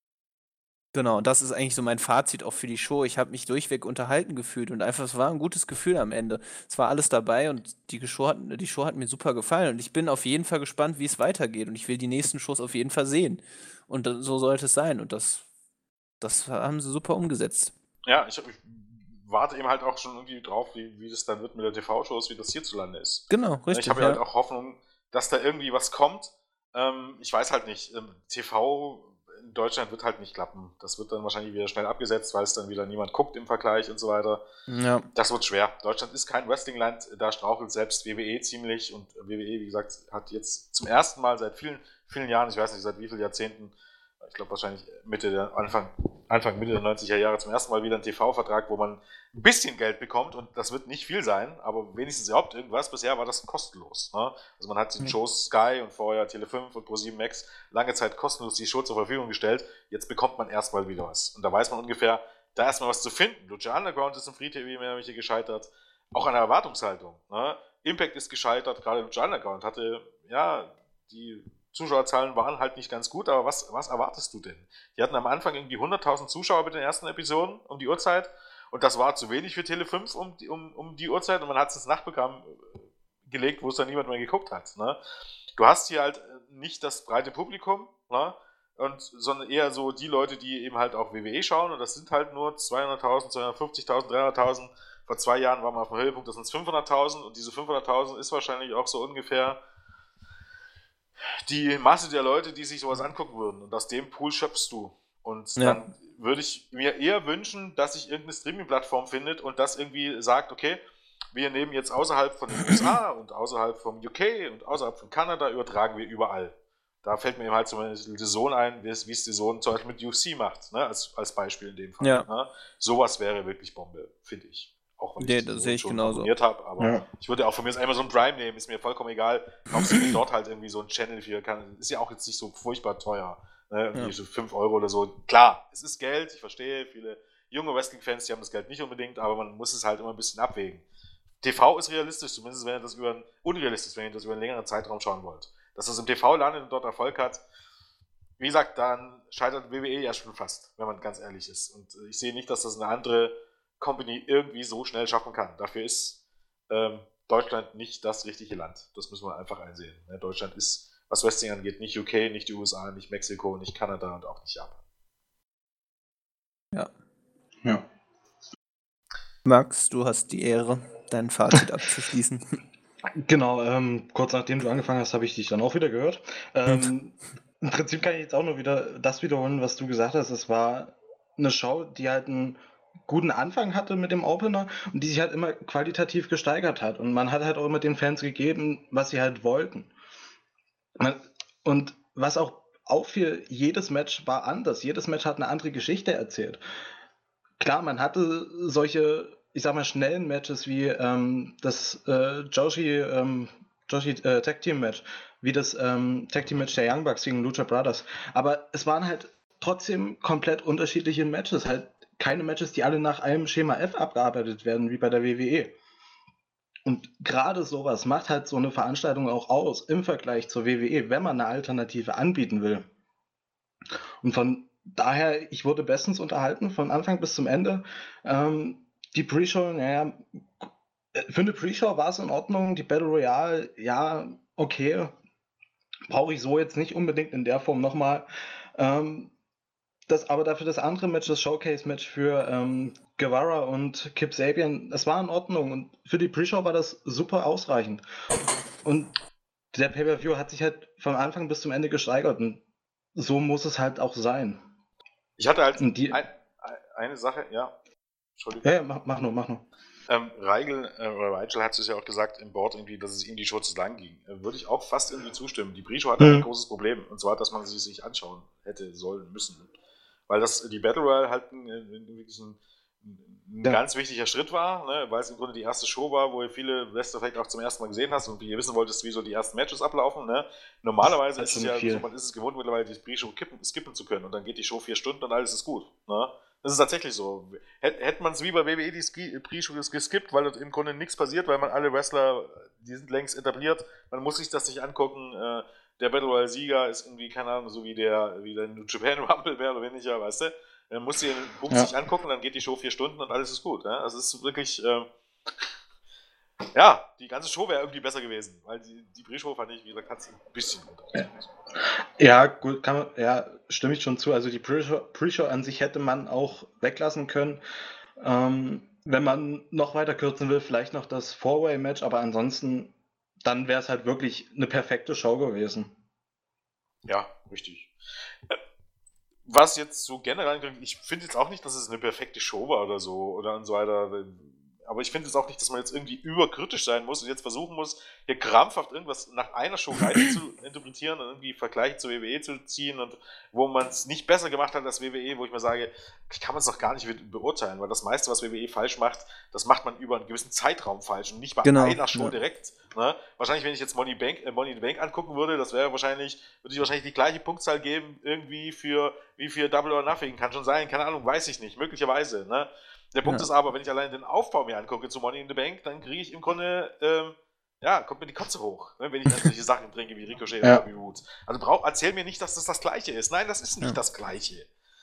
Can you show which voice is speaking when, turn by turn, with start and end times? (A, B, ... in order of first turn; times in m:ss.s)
0:00.9-0:15.4 A
0:16.2-0:17.7 A
0:18.0-0:34.4 B
0:23.3-0:24.2 A
0:34.7-0:35.1 A
0:35.1-1:25.0 B
1:25.6-1:39.6 B
1:41.5-1:50.8 B
1:51.3-2:20.8 B
2:02.0-2:02.3 A
2:05.2-2:06.3 A
2:06.8-2:07.0 C
2:09.7-2:10.1 A
2:21.4-2:27.4 B
2:28.4-2:36.2 B
2:36.7-2:44.8 B
2:49.4-2:52.4 A
2:53.2-3:09.9 C
2:56.6-2:56.9 A
3:11.0-3:16.6 C
3:17.6-3:35.7 C
3:36.8-3:42.8 C
3:44.2-3:55.1 C
3:56.1-3:58.2 C
3:58.8-3:59.3 C
4:00.1-4:08.0 C
4:08.8-4:09.1 C
4:09.7-4:12.6 C
4:13.1-4:14.6 C
4:15.4-4:17.7 B
4:15.8-4:16.2 C
4:18.4-4:18.6 B
4:18.6-4:19.6 C
4:20.1-4:29.7 B
4:26.2-4:26.5 C
4:30.3-5:05.1 B
4:41.4-4:42.0 C
5:06.7-5:11.5 B
5:11.8-5:17.6 C
5:18.2-5:22.9 C
5:23.4-5:25.9 C
5:27.1-5:27.9 B
5:29.4-6:14.7 B
5:51.6-5:52.3 A